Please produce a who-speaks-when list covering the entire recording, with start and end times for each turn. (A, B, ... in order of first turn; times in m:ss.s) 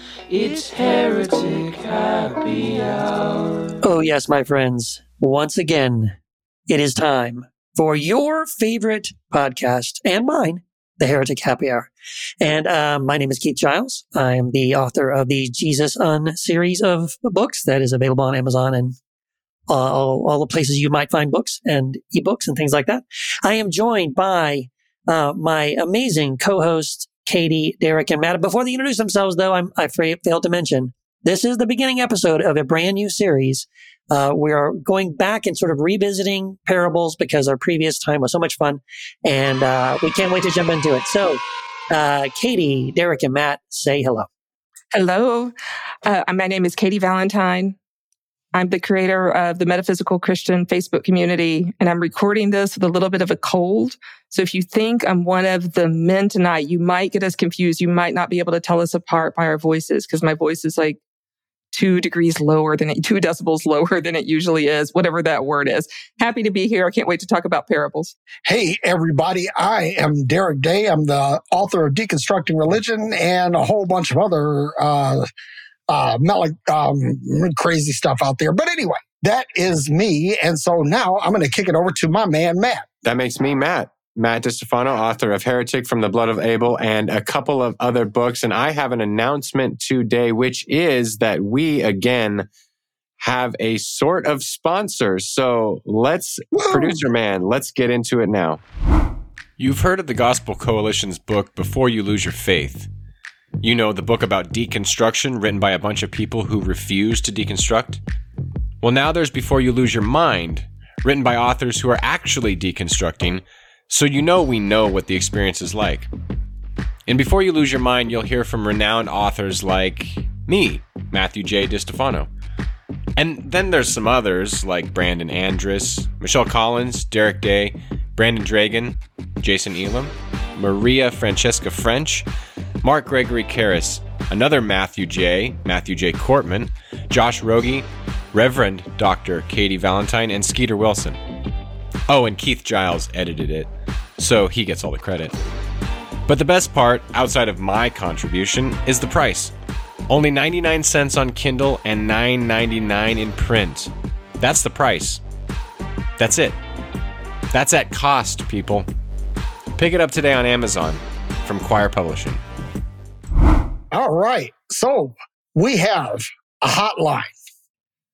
0:00.3-0:03.7 A
0:03.8-0:06.2 B
0:06.7-0:19.0 B
0:19.7-0:44.3 B
0:44.9-0:45.5 C
0:46.0-0:47.8 C
0:48.5-1:01.0 C
1:01.7-1:08.1 C
1:08.5-1:15.3 D
1:15.9-1:22.9 D
1:23.0-1:32.5 E
1:33.2-1:38.6 E
1:36.5-1:37.0 D
1:39.6-1:42.9 E
1:43.6-1:48.0 E
1:48.8-1:56.1 E
1:57.1-2:02.3 E
2:03.2-2:12.3 E
2:12.8-2:21.2 E
2:22.1-2:25.4 E
2:26.3-2:29.5 E
2:30.1-2:35.2 E
2:36.2-2:36.6 E
2:37.5-2:38.9 E
2:39.7-2:42.4 E
2:43.9-2:47.3 D